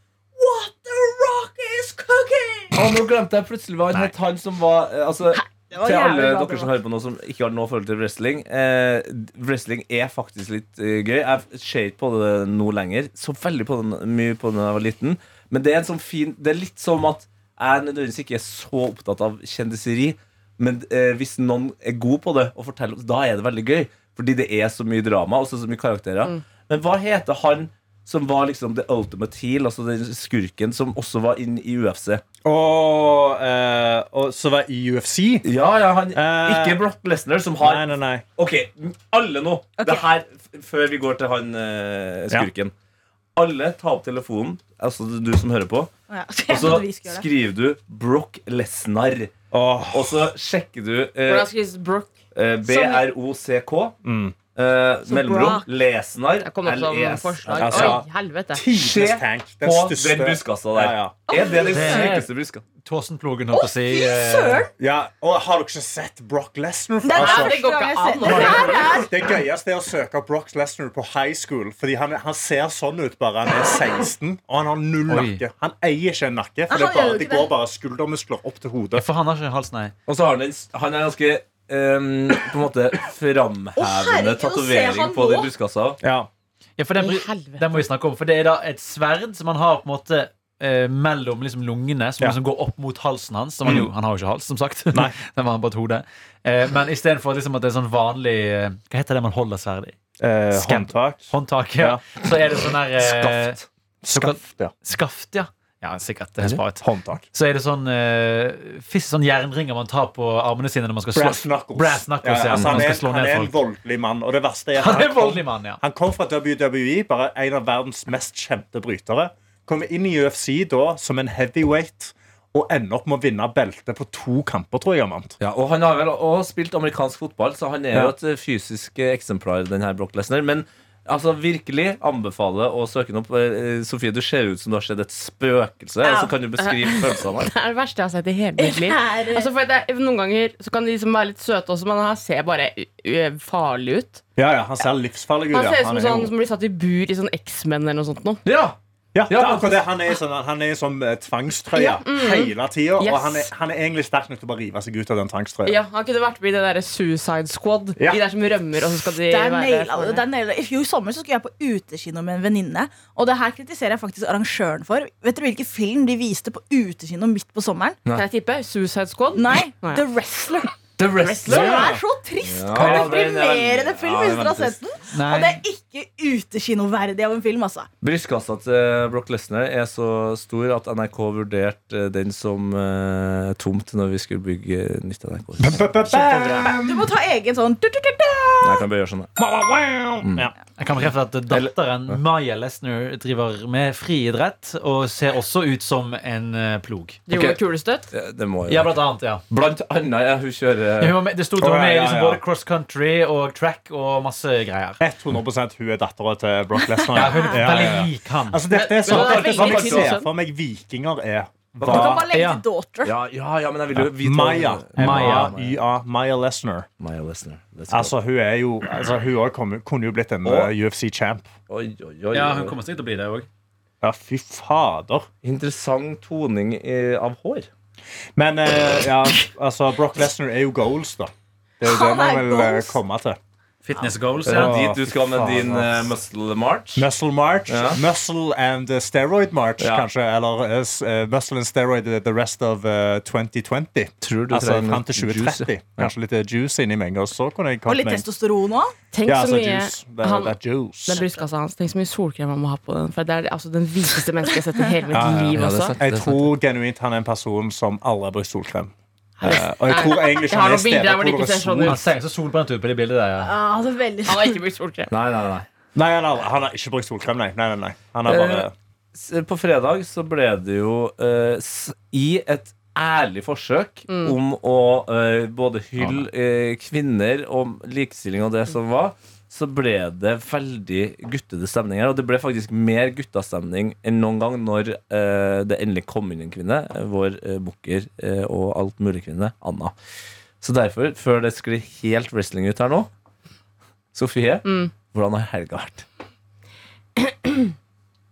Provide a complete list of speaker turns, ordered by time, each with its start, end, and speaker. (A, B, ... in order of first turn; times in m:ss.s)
0:00.4-0:03.0 A
0:02.7-0:32.2 B
0:05.3-0:06.7 A
0:32.4-0:35.4 C
0:35.4-0:42.7 B
0:36.1-0:36.8 C
0:37.6-0:38.2 C
0:39.8-0:40.1 A
0:43.4-0:45.9 B
0:46.1-0:47.3 A
0:46.5-0:49.3 B
0:49.5-0:50.3 C
0:49.9-0:51.5 B
0:51.2-0:52.1 D
0:52.3-0:54.0 B
0:52.7-0:53.0 D
0:54.0-0:54.3 C
0:54.5-0:58.0 B
0:55.1-0:55.6 A
0:56.4-0:58.6 D
0:57.6-1:01.2 C
0:58.7-1:02.6 B
1:01.3-1:02.1 A
1:01.6-1:02.3 E
1:02.8-1:04.7 E
1:03.5-1:04.7 A
1:04.8-1:07.6 C
1:07.0-1:09.3 A
1:07.1-1:09.0 D
1:08.2-1:19.0 C
1:15.1-1:15.4 E
1:16.7-1:17.5 A
1:18.9-1:19.9 E
1:20.1-1:26.0 B
1:23.8-1:25.5 A
1:26.0-1:26.3 C
1:26.8-1:40.0 E
1:27.0-1:27.8 D
1:40.2-1:42.0 C
1:40.5-1:53.5 E
1:43.2-1:43.6 B
1:44.0-1:44.7 C
1:46.8-1:47.2 C
1:51.1-2:05.4 C
1:52.5-1:52.9 B
1:54.8-1:55.8 E
2:05.4-2:17.5 B
2:16.0-2:16.3 A
2:16.6-2:24.2 D
2:18.6-2:19.5 A
2:24.4-2:26.3 C
2:25.5-2:28.4 D
2:28.4-2:28.8 B
2:29.1-2:35.8 C
2:29.3-2:29.8 B
2:32.0-2:33.5 D
2:35.6-2:40.2 D
2:38.0-2:38.2 C
2:39.3-2:48.0 A
2:48.1-2:50.0 D
2:49.3-2:50.7 A
2:51.0-2:51.9 B
2:51.2-2:51.8 D
2:51.3-2:57.9 A
2:51.5-2:52.0 C
2:52.4-2:54.8 B
2:52.7-2:53.2 E
2:55.1-2:55.6 E
2:58.0-3:05.9 B
3:05.6-3:07.1 C
3:06.1-3:08.8 A
3:08.6-3:09.3 B
3:09.4-3:10.5 C
3:10.8-3:17.2 E
3:11.5-3:12.2 B
3:17.3-3:18.1 D
3:17.3-3:17.6 B
3:18.1-3:19.0 B
3:18.7-3:19.4 E
3:19.5-3:21.2 B
3:21.0-3:25.0 E
3:21.6-3:22.4 C
3:25.0-3:32.2 C
3:27.1-3:28.6 E
3:27.2-3:27.6 A
3:28.7-3:30.3 D
3:29.0-3:30.2 B
3:31.7-3:32.6 E
3:31.8-3:33.1 A
3:33.0-3:35.8 B
3:33.9-3:36.9 C
3:35.0-3:35.6 E
3:37.0-3:38.1 B
3:37.9-3:41.5 C
3:40.4-3:40.7 B
3:41.7-3:42.8 B
3:42.3-3:43.5 E
3:44.0-3:45.3 C
3:45.4-3:47.7 B
3:48.4-3:53.4 C
3:51.8-3:53.0 A
3:53.8-3:56.0 E
3:54.4-3:57.1 B
3:54.4-3:55.8 C
3:57.0-4:08.2 C
3:57.7-3:58.0 B
3:59.8-4:00.0 B
4:04.2-4:06.1 B
4:07.8-4:08.9 A
4:09.1-4:16.0 D
4:09.2-4:11.2 C
4:15.1-4:22.0 C
4:15.2-4:16.5 B
4:19.4-4:22.0 D
4:21.8-4:23.5 E
4:23.4-4:24.6 A
4:24.2-4:25.1 D
4:25.1-4:25.7 B
4:25.9-4:28.7 C
4:28.2-4:49.9 B
4:34.1-4:34.4 D
4:50.6-4:53.1 B
4:54.1-4:56.0 B
4:54.6-4:54.9 D
4:57.2-4:57.7 D